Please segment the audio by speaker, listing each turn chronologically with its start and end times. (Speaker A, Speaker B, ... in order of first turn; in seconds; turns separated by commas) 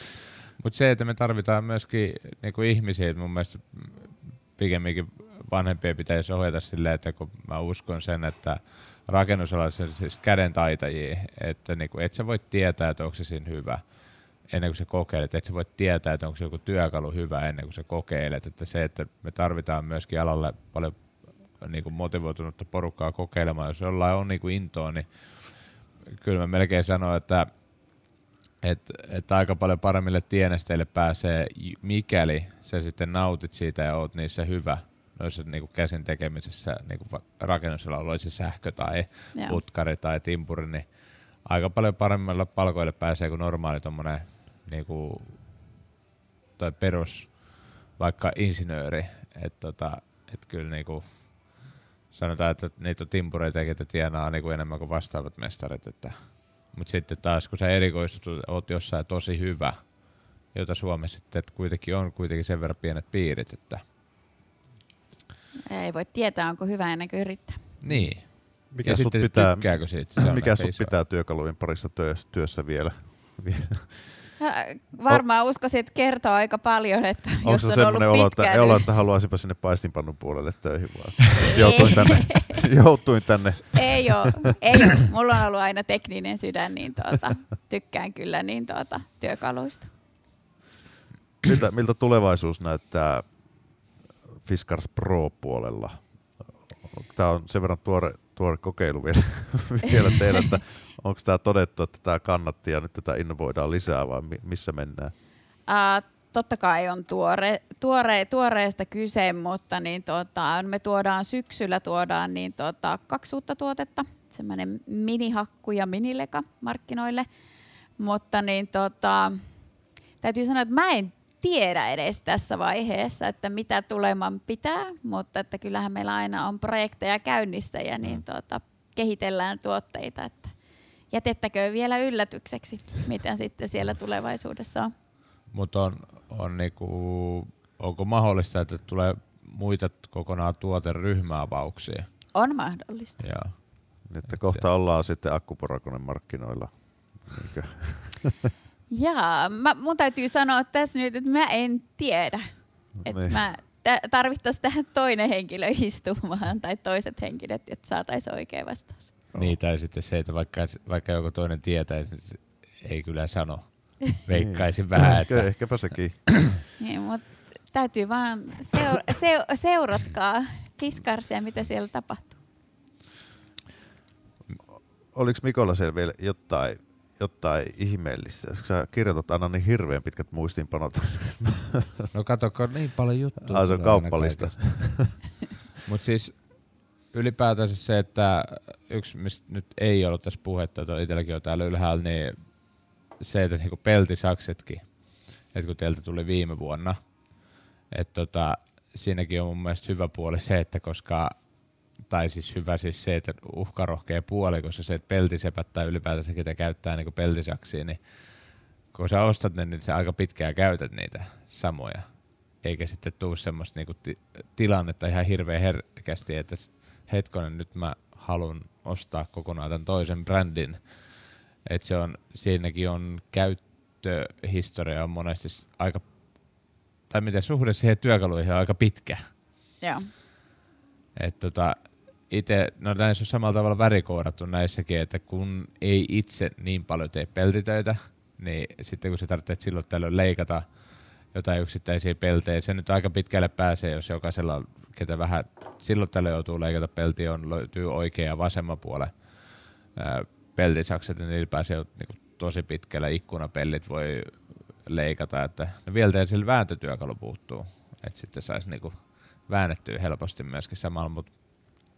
Speaker A: 0.6-28.1, Speaker A: 28.6-45.5, Speaker B: 39.3-39.6, Speaker A: 46.6-63.8, Speaker B: 65.7-67.7, Speaker A: 67.8-70.9, Speaker C: 67.8-74.3, Speaker B: 74.4-78.8, Speaker C: 77.4-84.3, Speaker B: 81.5-82.5, Speaker B: 83.7-89.9, Speaker C: 91.4-93.5, Speaker C: 94.4-105.1, Speaker B: 105.7-117.3, Speaker B: 118.0-119.4, Speaker B: 120.2-130.6, Speaker B: 131.1-134.9, Speaker A: 135.5-142.2, Speaker B: 142.3-143.3, Speaker A: 143.2-144.6, Speaker C: 144.1-148.3, Speaker B: 148.9-159.1, Speaker C: 153.0-153.4, Speaker A: 159.3-166.6, Speaker C: 164.3-166.4, Speaker B: 166.8-172.3, Speaker C: 174.7-182.1, Speaker A: 182.1-185.2, Speaker C: 183.4-185.2, Speaker A: 185.8-229.2, Speaker B: 229.8-230.1, Speaker A: 231.2-261.8